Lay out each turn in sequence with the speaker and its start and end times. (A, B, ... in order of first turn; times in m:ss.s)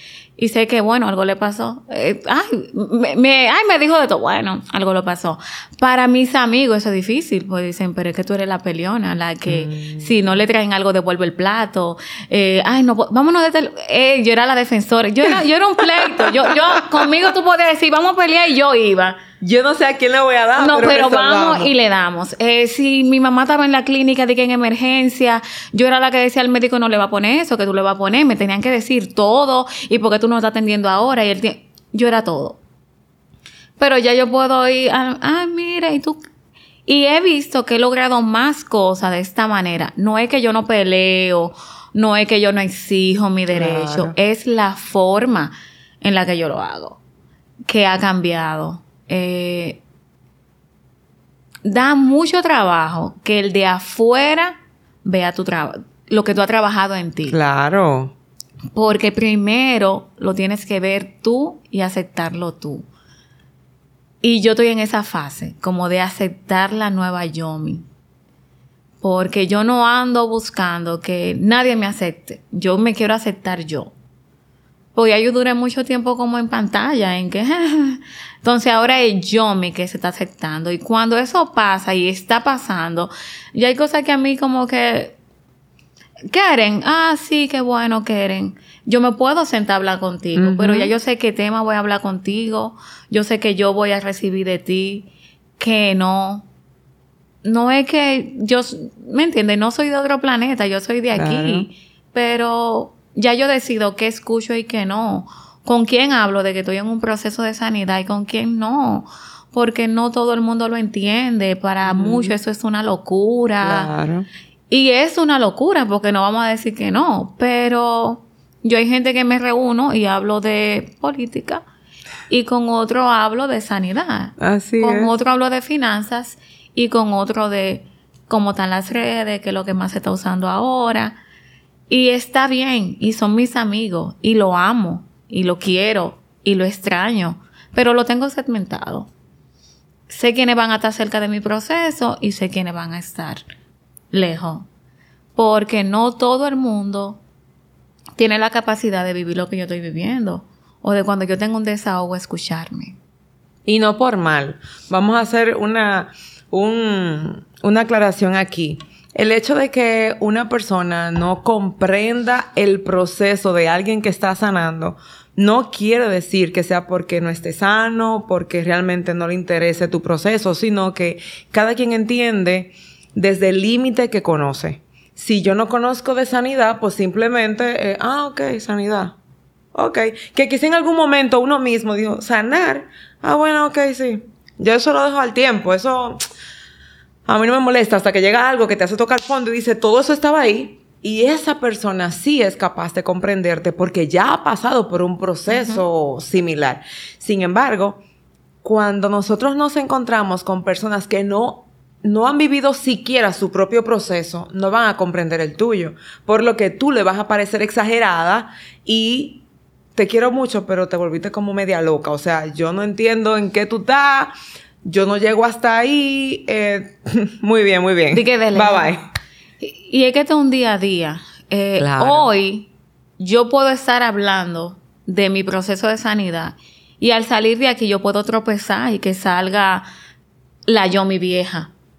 0:00.4-0:19.2 A
0:09.5-0:10.1 B
0:19.4-0:21.7 B
0:20.6-0:32.6 A
0:33.8-0:36.2 A
0:36.8-0:47.0 A
0:43.5-0:44.1 B
0:47.7-0:49.8 A
0:51.6-0:57.4 A
0:57.3-0:58.1 B
0:58.7-1:02.9 A
1:04.2-1:07.8 A
1:09.0-1:13.9 A
1:14.9-1:25.2 A
1:26.3-1:36.4 A
1:30.4-1:30.9 B
1:37.4-1:53.9 A
1:41.1-1:41.7 B
1:51.8-1:52.3 B
1:53.6-1:54.2 B
1:54.7-2:01.6 A
2:02.3-2:11.2 A
2:04.4-2:05.1 B
2:11.9-2:19.1 A
2:20.1-2:23.4 A
2:24.1-2:24.7 A
2:25.4-2:27.2 A
2:28.2-2:33.0 A
2:33.6-2:59.1 B
2:59.7-3:06.2 B
3:07.3-3:18.0 B
3:15.5-3:15.8 A
3:18.6-3:29.4 B
3:30.0-3:34.3 B
3:34.8-3:39.0 B
3:38.1-3:38.9 A
3:39.6-3:49.9 A
3:41.8-3:42.3 B
3:50.7-3:51.7 A